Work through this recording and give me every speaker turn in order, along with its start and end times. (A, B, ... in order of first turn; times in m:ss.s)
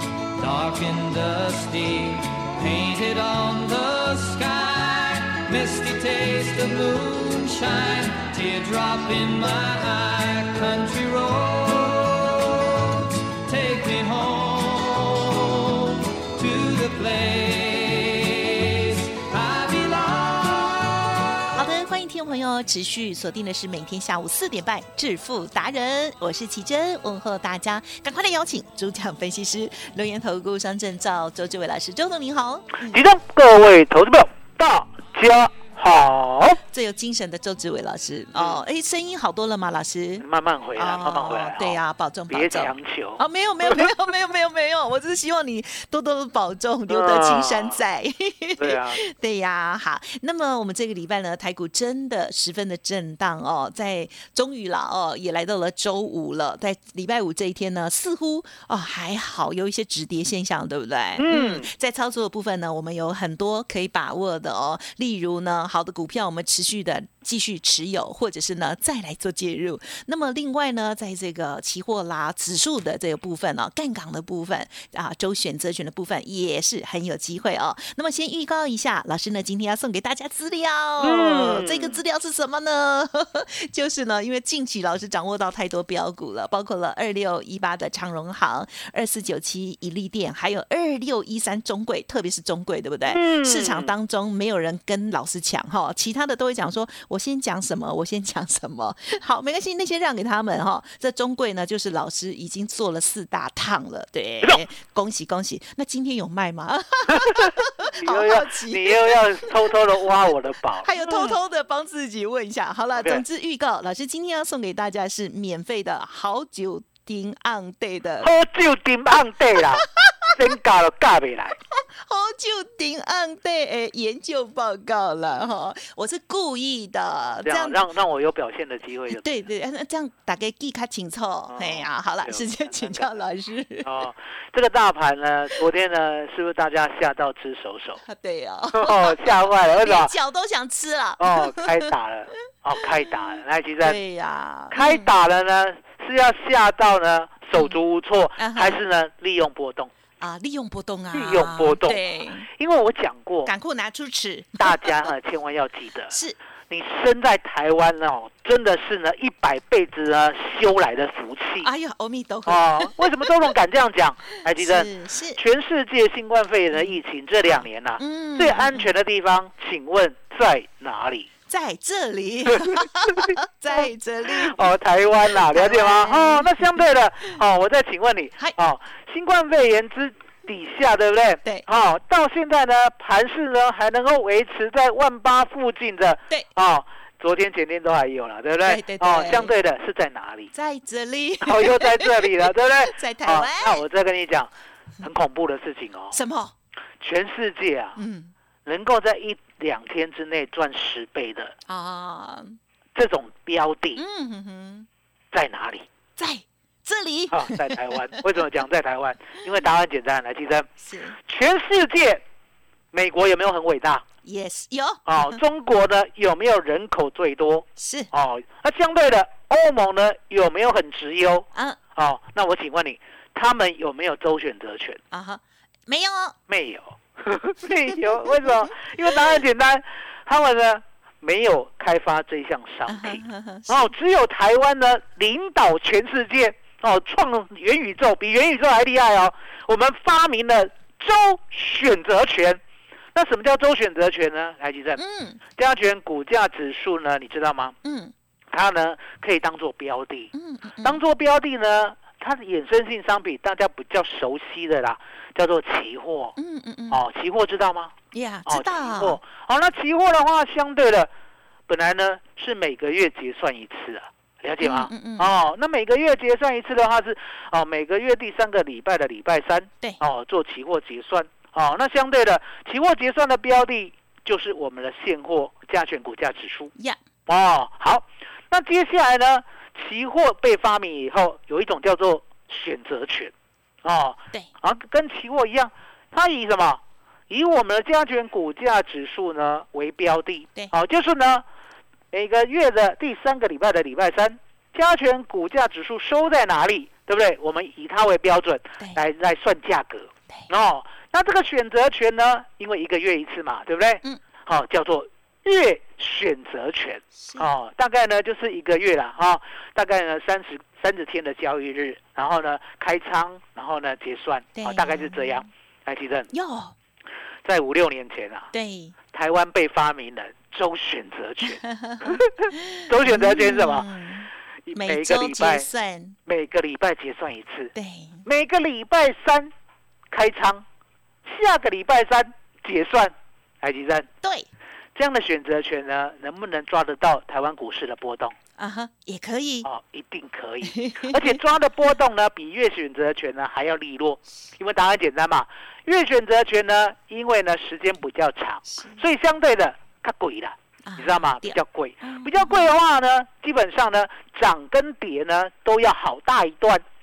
0:00.4-0:21.4 A
0:21.5-0:33.0 B
0:32.8-0:36.6 C
0:36.7-1:49.7 B
0:38.3-0:38.6 C
0:40.2-0:43.9 C
0:46.9-0:47.8 C
0:48.6-0:49.0 C
1:01.2-1:01.7 C
1:21.0-1:22.0 C
1:33.1-1:33.9 C
1:47.1-1:51.4 C
1:50.8-1:58.3 B
1:52.9-1:53.2 C
1:58.2-2:01.6 C
1:59.5-2:00.3 B
2:01.7-2:07.8 B
2:07.4-2:09.4 C
2:09.1-2:13.9 B
2:11.5-2:13.1 C
2:13.8-2:18.0 C
2:18.0-2:21.9 B
2:18.7-2:20.1 C
2:21.2-2:24.0 C
2:23.0-2:25.1 B
2:24.7-2:29.9 C
2:28.4-2:28.8 B
2:30.2-2:32.5 B
2:31.1-2:33.5 C
2:33.4-2:34.8 B
2:34.6-2:36.2 C
2:36.1-2:36.4 B
2:36.7-2:41.7 C
2:41.6-2:43.2 B
2:42.5-2:51.3 C
2:44.5-2:45.4 B
2:47.6-2:48.9 B
2:51.5-2:54.7 B
2:52.5-2:53.8 C
2:54.4-3:10.5 C
2:55.2-2:56.8 B
3:08.6-3:09.5 B
3:10.5-3:13.8 B
3:11.4-3:14.5 C
3:15.0-3:16.2 C
3:16.1-3:16.5 B
3:17.0-3:18.0 C
3:18.0-3:18.3 B
3:18.6-3:21.5 C
3:21.7-3:22.6 B
3:22.9-3:24.0 C
3:24.0-3:24.9 B
3:25.3-3:25.8 C
3:26.2-3:28.0 B
3:27.3-3:30.7 C
3:30.8-3:31.2 B
3:31.2-3:32.2 C
3:32.9-3:34.0 C
3:34.2-3:35.4 B
3:35.0-3:45.0 C
3:37.8-3:38.1 B
3:41.5-3:41.8 B
3:45.1-3:46.4 B
3:46.5-4:02.6 C
3:47.9-3:49.4 B
3:52.9-3:53.9 B
4:03.1-4:05.0 C
4:05.0-4:05.4 B
4:05.6-4:07.8 C
4:07.8-4:08.1 B
4:08.5-4:10.3 C
4:10.3-4:11.0 B
4:10.8-4:16.4 C
4:16.4-4:17.0 B
4:16.9-4:17.9 C
4:18.1-4:19.2 B
4:18.4-4:21.1 C
4:21.7-4:36.7 C
4:24.6-4:25.3 B
4:37.3-4:43.3 C
4:43.8-4:51.4 C
4:52.1-5:16.3 C
5:07.2-5:07.5 B
5:14.5-5:15.5 B
5:16.3-5:16.7 B
5:17.4-5:18.5 C
5:18.5-5:18.9 B
5:19.1-5:23.9 C
5:21.5-5:26.2 B
5:24.7-5:25.7 C
5:26.2-5:27.7 C
5:27.7-5:28.2 B
5:28.2-5:29.5 C
5:30.1-5:30.6 C
5:31.2-5:34.1 C
5:34.2-5:34.5 B
5:34.9-5:38.3 C
5:38.6-5:39.7 B
5:39.6-5:56.8 C
5:40.6-5:41.4 B
5:48.6-5:49.0 B
5:50.8-5:52.7 B